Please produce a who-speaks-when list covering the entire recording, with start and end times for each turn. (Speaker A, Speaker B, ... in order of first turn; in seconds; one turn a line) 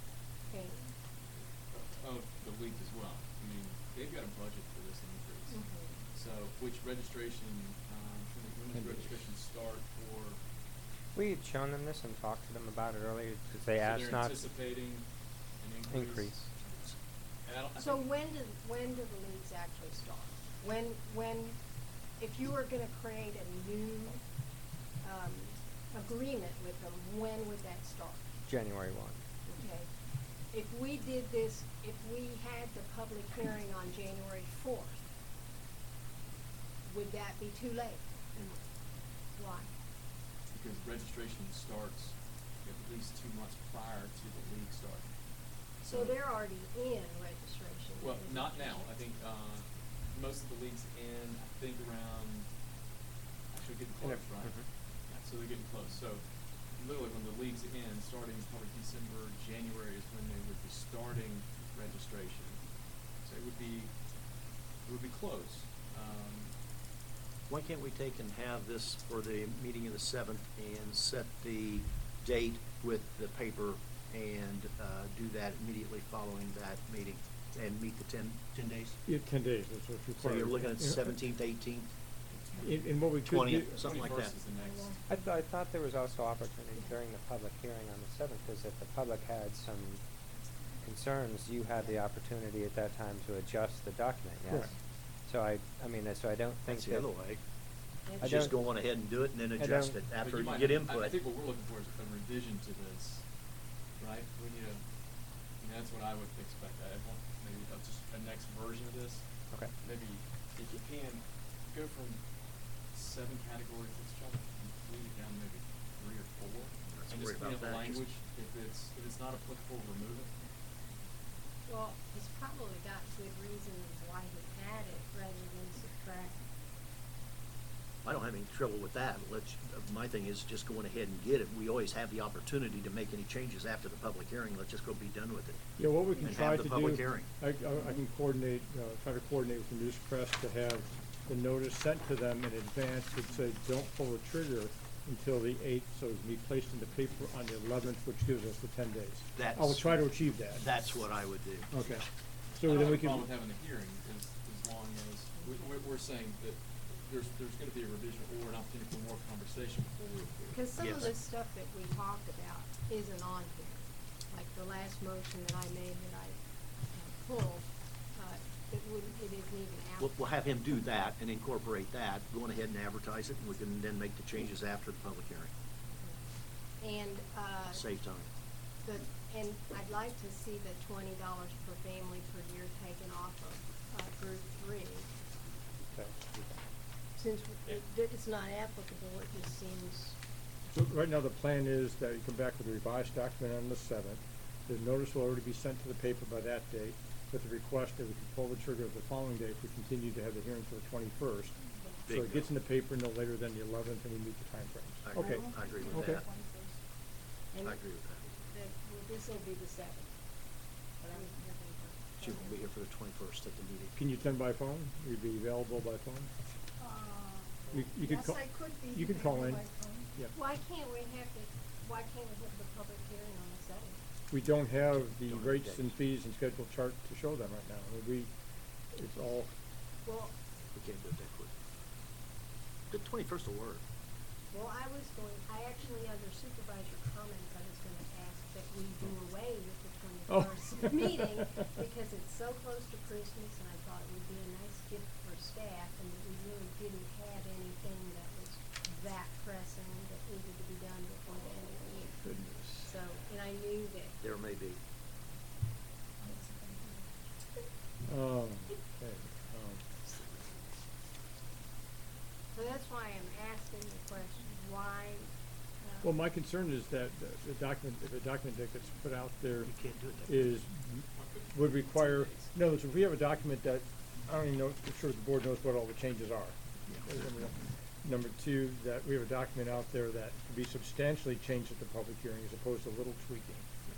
Speaker A: 0.5-0.9
Speaker B: 1.7-5.6
Speaker A: 5.5-6.0
Speaker B: 6.1-10.4
Speaker C: 8.7-9.2
Speaker D: 11.2-14.4
Speaker B: 13.8-15.1
Speaker B: 15.6-16.5
Speaker D: 15.9-16.5
Speaker B: 17.4-18.1
Speaker A: 17.8-21.6
Speaker A: 22.2-24.2
Speaker A: 25.0-28.2
Speaker D: 28.5-29.2
Speaker A: 29.5-29.9
Speaker A: 30.5-35.0
Speaker A: 36.9-38.1
Speaker A: 39.4-39.7
Speaker B: 40.5-45.1
Speaker B: 45.8-46.1
Speaker A: 45.9-48.8
Speaker B: 48.0-52.5
Speaker B: 53.5-56.2
Speaker B: 56.8-62.6
Speaker B: 63.2-63.9
Speaker B: 64.8-66.5
Speaker E: 67.5-79.0
Speaker C: 79.1-81.2
Speaker E: 80.2-81.9
Speaker B: 82.3-83.1
Speaker C: 82.6-83.9
Speaker E: 83.2-84.3
Speaker B: 83.7-85.1
Speaker F: 84.6-85.0
Speaker D: 85.1-90.0
Speaker D: 90.8-94.7
Speaker D: 95.3-97.1
Speaker E: 96.7-97.4
Speaker A: 98.1-98.3
Speaker D: 98.2-98.6
Speaker E: 98.2-101.2
Speaker D: 99.6-100.0
Speaker B: 100.2-103.2
Speaker B: 104.0-104.8
Speaker B: 105.6-109.2
Speaker B: 109.8-112.2
Speaker B: 112.9-120.3
Speaker E: 116.9-118.0
Speaker A: 121.7-126.4
Speaker E: 128.0-135.6
Speaker C: 135.8-150.7
Speaker E: 136.2-137.3
Speaker E: 149.4-151.9
Speaker C: 151.7-153.3
Speaker B: 152.6-160.6
Speaker A: 160.5-166.4
Speaker E: 160.8-161.2
Speaker A: 166.9-170.2
Speaker E: 170.0-175.5
Speaker A: 175.9-176.2
Speaker A: 176.8-177.8
Speaker E: 177.7-178.3
Speaker A: 178.8-185.1
Speaker C: 185.9-186.3
Speaker A: 187.2-190.2
Speaker C: 190.7-201.6
Speaker E: 202.1-202.5
Speaker C: 202.1-206.2
Speaker E: 205.1-206.3
Speaker F: 205.2-206.8
Speaker A: 207.5-210.1
Speaker E: 207.6-208.2
Speaker A: 211.0-212.6
Speaker E: 212.2-213.9
Speaker C: 213.9-216.3
Speaker F: 216.8-220.1
Speaker C: 217.7-219.6
Speaker A: 220.3-224.0
Speaker C: 224.3-228.3
Speaker E: 225.2-226.0
Speaker C: 228.9-229.5
Speaker A: 230.1-230.3
Speaker E: 230.7-231.5
Speaker E: 232.9-233.8
Speaker A: 234.5-254.2
Speaker C: 240.3-241.7
Speaker C: 252.2-252.9
Speaker E: 254.2-254.8
Speaker F: 256.2-257.2
Speaker C: 258.1-259.9
Speaker A: 262.5-266.2
Speaker C: 266.0-269.7
Speaker E: 269.7-270.4
Speaker C: 270.3-283.7
Speaker B: 271.1-272.5